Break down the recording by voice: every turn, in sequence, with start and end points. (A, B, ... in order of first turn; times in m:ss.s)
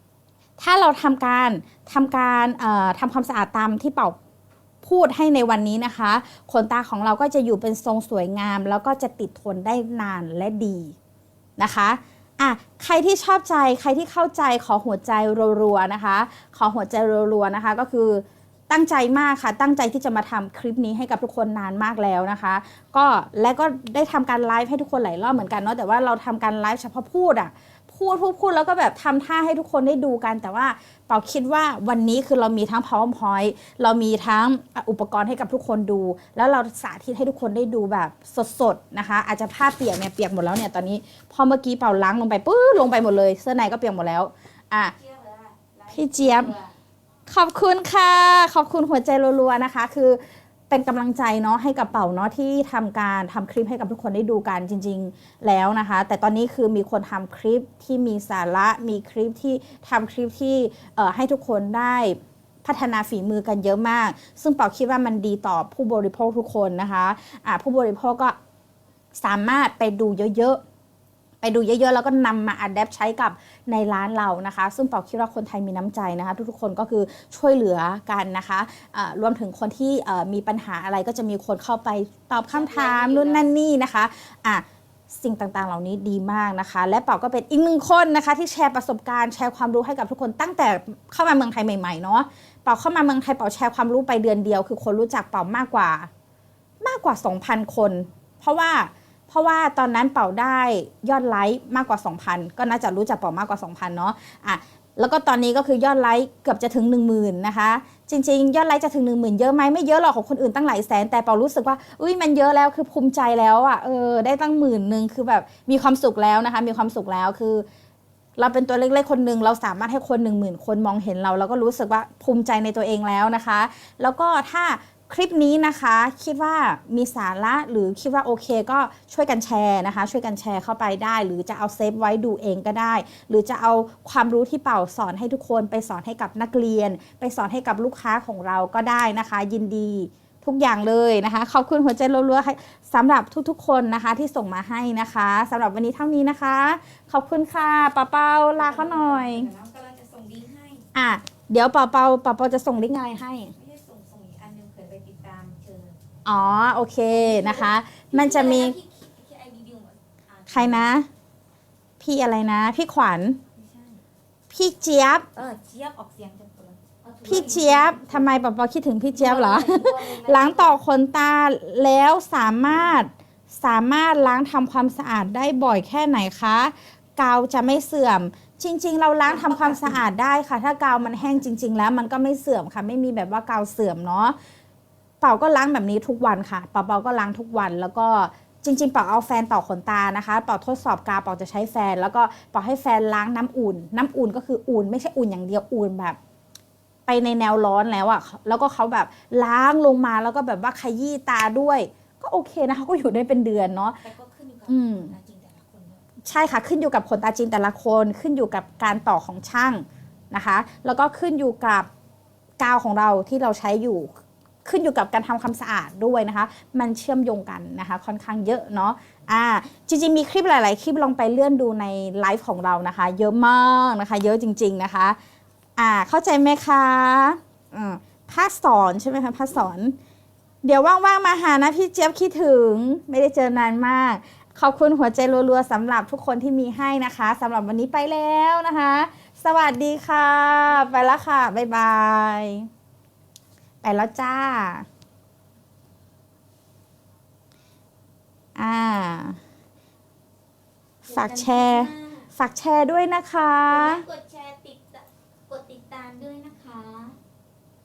0:00.6-0:04.2 A
0:04.8-0:10.9 A
0:11.6-0:44.9 A
0:44.9-0:46.7 B
0:45.9-0:46.5 A
0:47.3-1:08.4 A
1:09.1-1:10.6 A
1:11.4-1:36.1 A
1:22.5-1:23.4 B
1:36.8-1:57.6 A
1:58.4-2:29.5 A
2:28.6-2:30.8 B
2:30.9-2:33.5 A
2:33.5-2:36.0 B
2:36.3-2:38.8 A
2:37.1-2:40.9 B
2:40.5-2:41.1 A
2:42.0-2:43.4 A
2:43.6-2:44.0 B
2:44.5-2:45.3 A
2:45.3-2:48.3 B
2:47.3-3:04.4 A
2:49.1-2:50.8 B
2:59.2-3:00.1 B
3:05.2-3:16.2 A
3:17.1-3:24.0 A
3:24.0-3:26.1 B
3:24.7-3:25.1 A
3:26.2-3:31.9 A
3:32.6-3:34.1 A
3:34.6-3:45.2 A
3:45.8-3:50.0 A
3:50.6-4:02.7 A
4:03.8-4:04.9 A
4:08.6-4:09.4 A
4:11.0-4:12.3 B
4:11.1-4:14.0 A
4:13.7-4:17.2 B